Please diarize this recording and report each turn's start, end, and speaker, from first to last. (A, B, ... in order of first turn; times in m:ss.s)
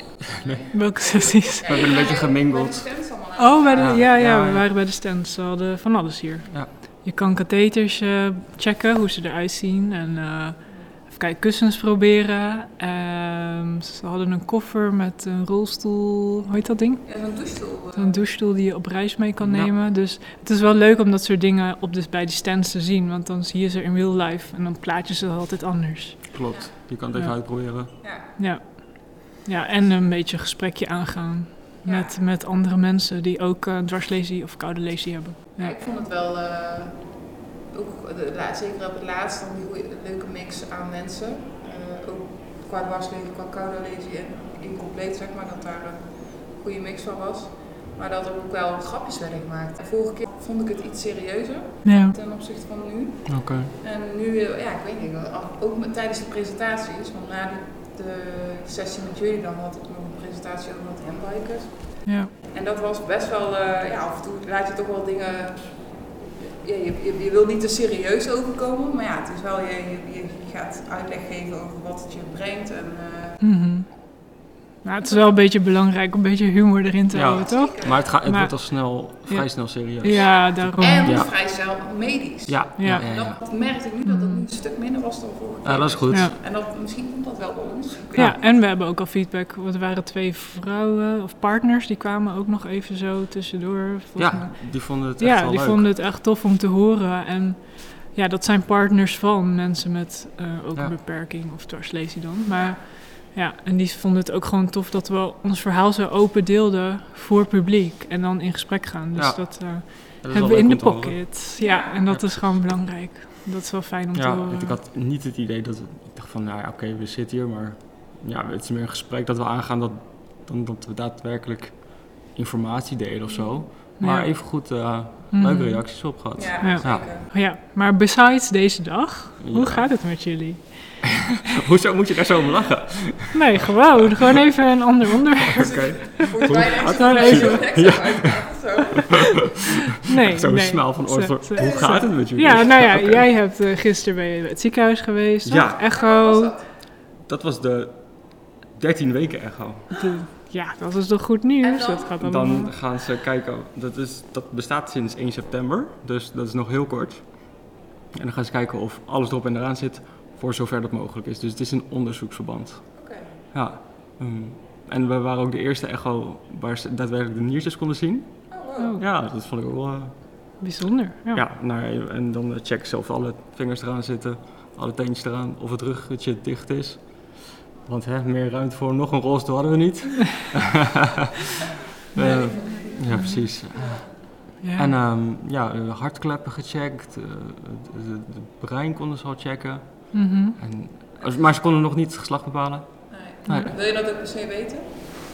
0:00.3-0:00.6 A
0:00.4-0:04.0 B
0:00.7-0:01.9 C
0:01.6-0:02.9 A
0:03.4-0:17.2 C
0:03.8-0:04.7 A
0:17.1-0:18.2 B
0:18.0-0:26.4 C
0:19.4-0:19.7 A
0:26.3-0:27.9 A
0:26.5-0:26.8 B
0:27.9-0:35.8 C
0:28.0-0:28.3 B
0:31.8-0:32.2 B
0:35.6-0:37.2 B
0:37.7-1:13.4 B
0:51.8-0:52.2 C
0:53.3-0:53.7 A
1:02.1-1:02.3 C
1:13.4-1:14.1 C
1:14.8-1:21.2 C
1:15.0-1:15.4 B
1:17.1-1:21.3 A
1:17.2-1:18.0 B
1:20.1-1:28.5 B
1:22.5-1:23.4 A
1:22.8-1:23.1 C
1:24.0-1:24.5 C
1:25.6-1:26.3 A
1:28.2-1:54.8 C
1:34.2-1:35.9 A
1:42.5-1:42.8 B
1:49.2-1:51.3 A
1:51.6-1:52.0 B
1:52.1-1:52.6 A
1:54.1-2:07.1 A
2:04.0-2:04.5 C
2:05.3-2:11.3 C
2:06.4-2:07.3 B
2:09.4-2:10.3 A
2:11.4-2:13.8 A
2:13.3-2:17.8 C
2:15.4-2:19.1 A
2:15.6-2:19.5 B
2:20.0-2:26.6 C
2:20.2-2:23.3 A
2:21.6-2:22.1 B
2:25.4-2:25.8 A
2:25.8-2:26.7 B
2:27.2-2:29.9 A
2:30.0-2:32.8 C
2:31.6-2:32.2 B
2:32.2-2:43.0 A
2:43.0-2:43.3 B
2:43.5-2:50.6 A
2:48.5-2:49.0 B
2:48.8-2:49.0 C
2:50.6-2:51.4 C
2:51.3-3:01.2 A
3:02.1-3:13.7 A
3:02.2-3:03.4 C
3:02.2-3:04.1 B
3:04.6-3:04.9 C
3:10.1-3:10.6 C
3:13.1-3:15.0 B
3:13.5-3:13.7 C